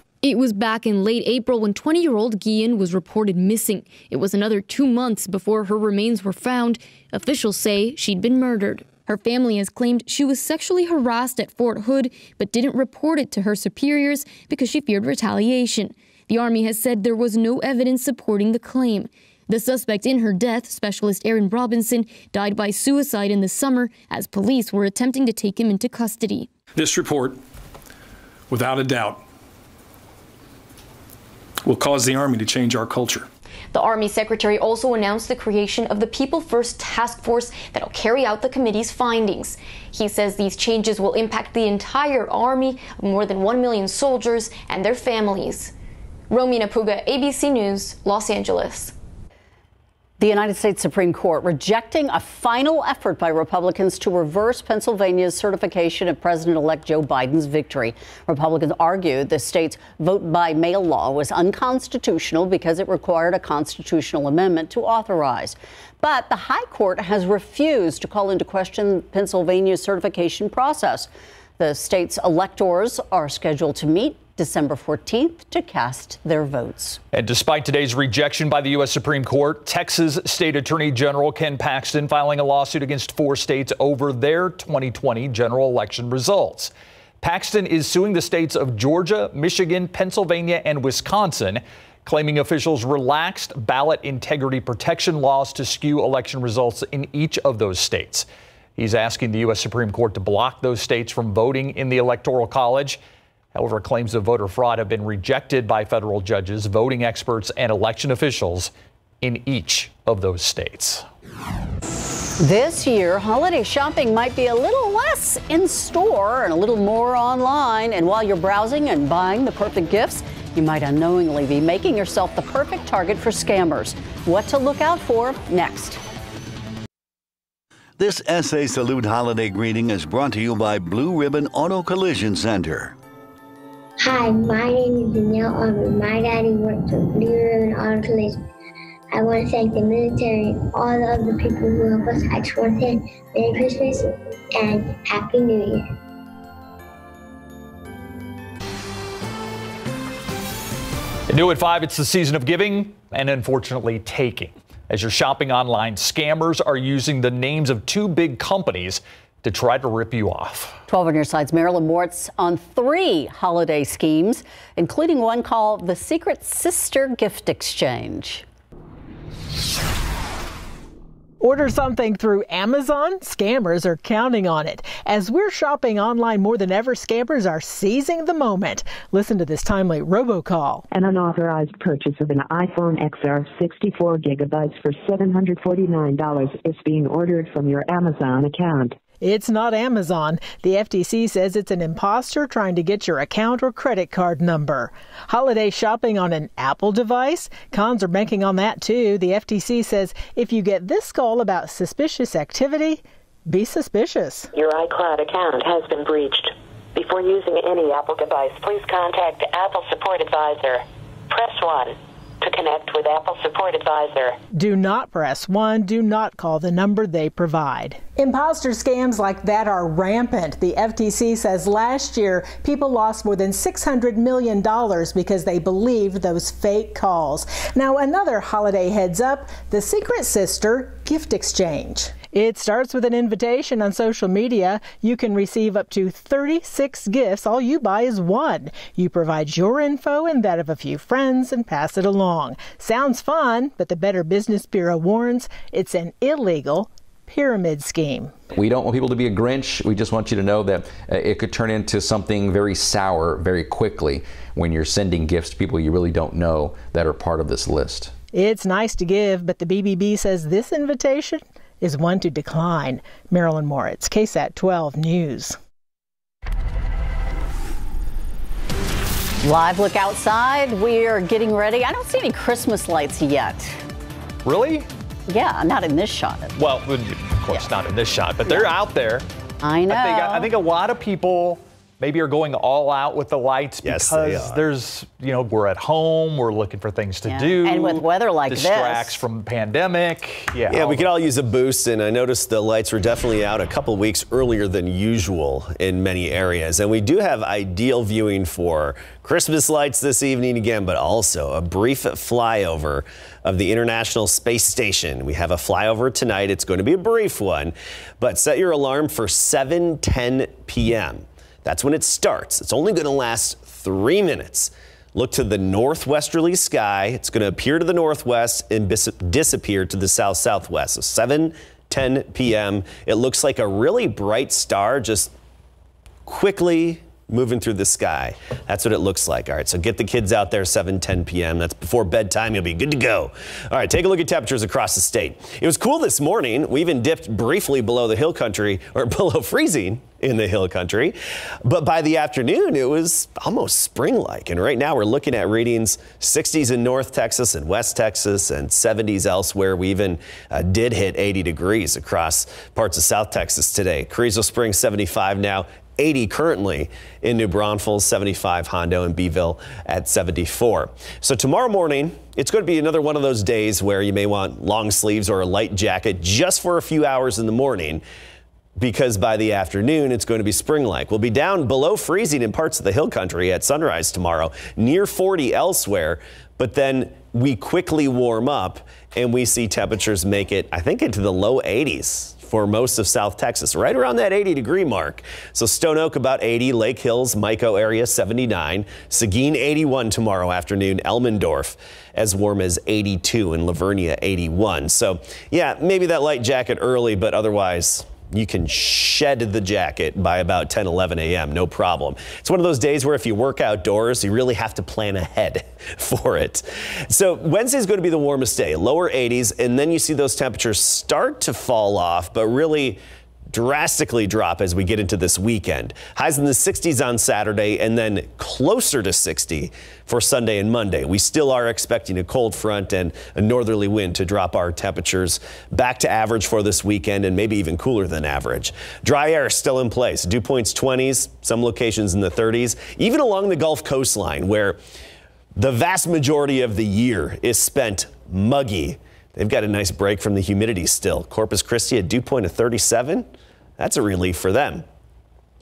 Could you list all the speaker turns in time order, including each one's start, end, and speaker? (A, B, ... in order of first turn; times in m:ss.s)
0:00.2-0:26.5 A
0:26.8-0:27.4 B
0:28.5-0:29.2 B
0:31.6-0:33.3 B
0:33.7-0:45.7 A
0:46.3-0:48.9 A
0:50.2-1:17.0 C
1:17.1-1:43.0 D
1:43.5-1:51.1 D
1:52.4-2:06.0 C
2:08.0-2:12.9 E
2:14.0-2:18.4 F
2:19.1-2:25.9 F
2:31.3-2:40.8 D
2:40.9-2:48.4 C
2:51.4-3:00.9 G
3:00.9-3:09.0 H
3:09.2-3:24.5 G
3:24.5-3:34.4 I
3:34.5-4:08.3 G
4:08.5-4:18.1 J
4:18.3-4:25.6 G
4:29.4-4:33.8 C
4:34.4-4:34.9 D
4:35.3-4:36.5 C
4:36.6-4:39.2 D
4:38.4-4:38.7 C
4:39.6-4:40.5 C
4:39.9-4:51.1 D
4:43.8-4:44.6 K
4:47.3-4:49.2 C
4:50.7-5:25.3 K
5:26.3-6:08.0 K
6:08.8-7:14.8 K
7:15.6-7:24.8 K